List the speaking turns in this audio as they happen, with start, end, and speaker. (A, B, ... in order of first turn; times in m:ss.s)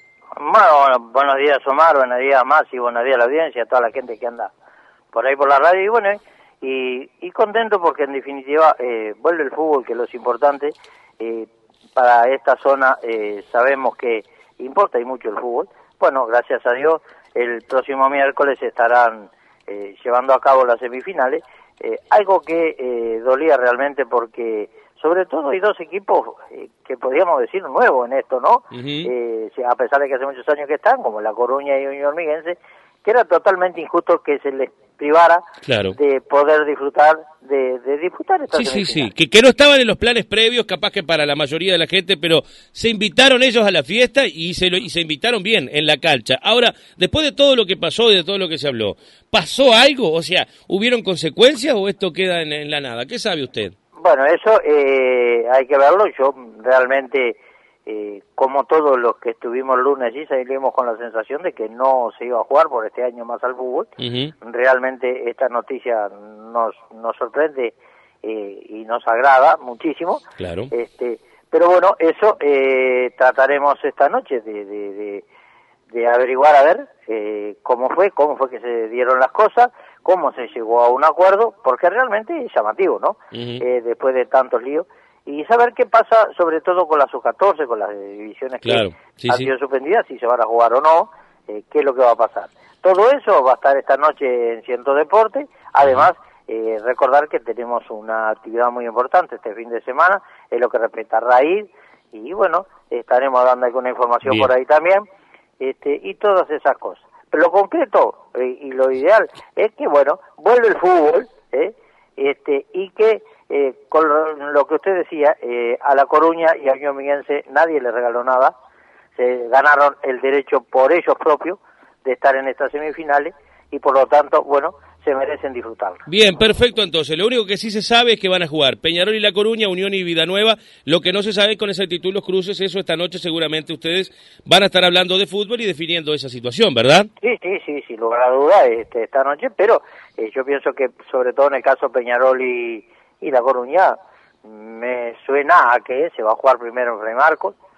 0:00.4-0:04.5 A
0:05.1-0:35.4 A
0:28.7-0:29.1 B
0:35.6-0:36.0 B
0:35.9-0:39.1 A
0:38.5-0:53.7 B
0:54.0-1:03.9 A
1:04.0-1:04.3 B
1:04.4-1:15.2 A
1:10.4-1:10.7 B
1:15.9-1:45.0 A
1:23.3-1:23.6 B
1:28.6-1:29.5 B
1:45.6-1:58.5 A
1:59.2-2:06.0 A
2:06.1-2:17.1 B
2:17.2-2:27.6 A